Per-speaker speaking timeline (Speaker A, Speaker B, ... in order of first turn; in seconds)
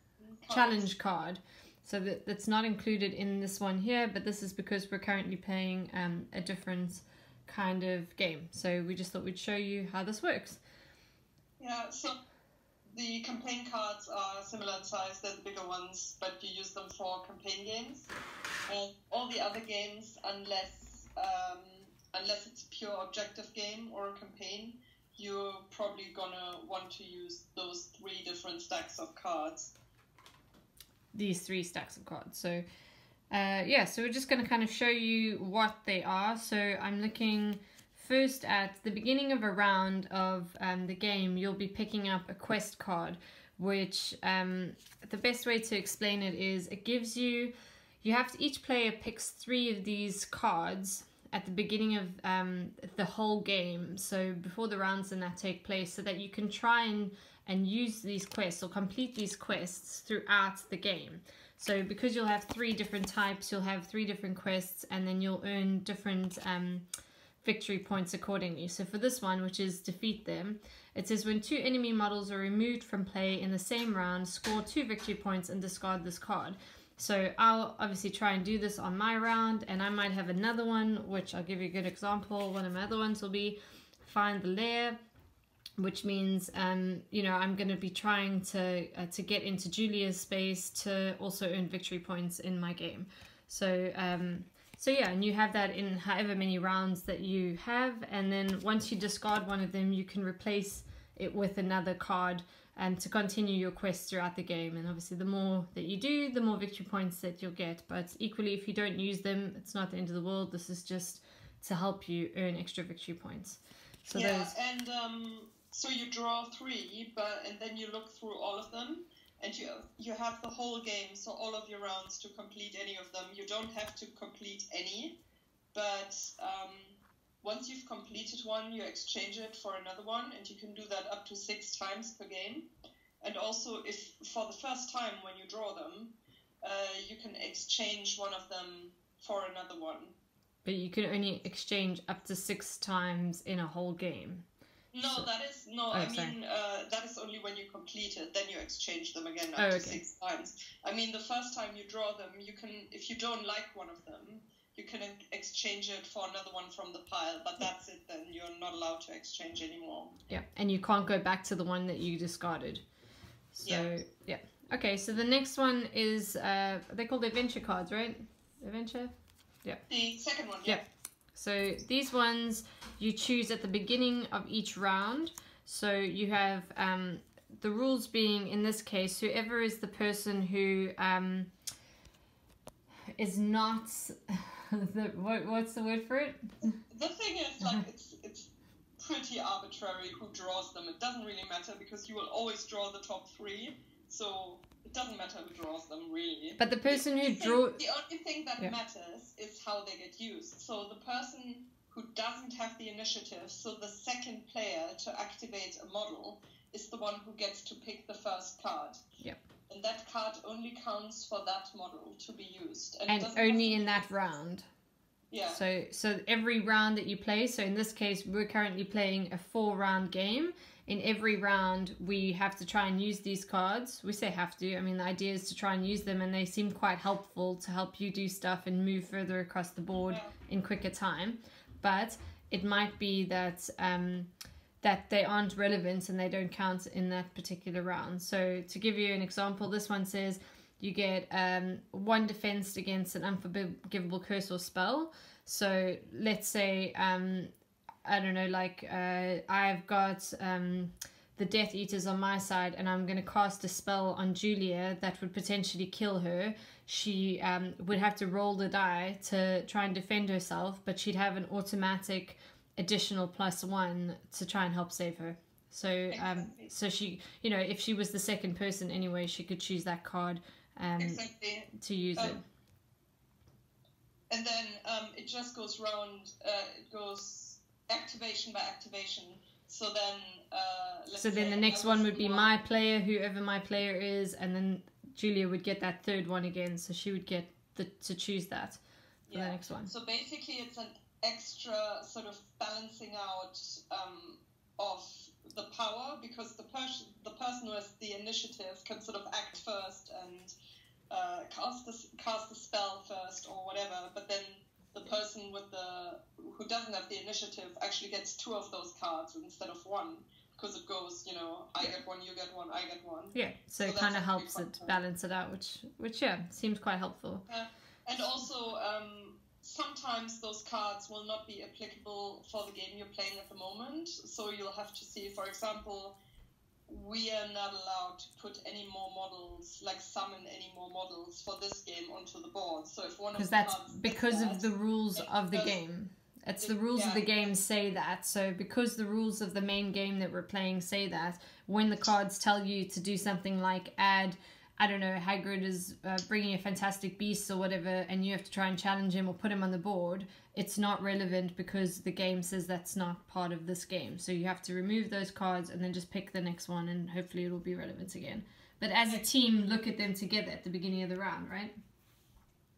Speaker A: 0.3-0.9, 11.6-12.2, 12.9-18.1, 18.7-29.7, 114.2-125.2, 125.7-132.7, 133.2-140.2, 144.9-160.2, 169.9-170.8, 186.9-209.0, 209.7-214.1, 266.4-266.7, 271.0-272.4, 274.3-282.4, 289.3-300.5, 301.1-314.9, 317.5-326.2, 326.9-335.8, 336.6-337.3
Speaker B: 0.5-10.6, 31.1-32.6, 33.3-66.9, 67.4-85.0, 85.8-114.5, 140.7-144.5, 145.0-145.3, 145.9-146.4, 149.6-150.0, 160.3-162.8, 163.5-169.1, 170.6-181.5, 183.2-186.6, 196.6-197.8, 213.1-214.7, 215.5-234.3, 234.8-247.5, 248.0-272.4, 281.1-289.9, 313.3-317.4, 333.3-361.7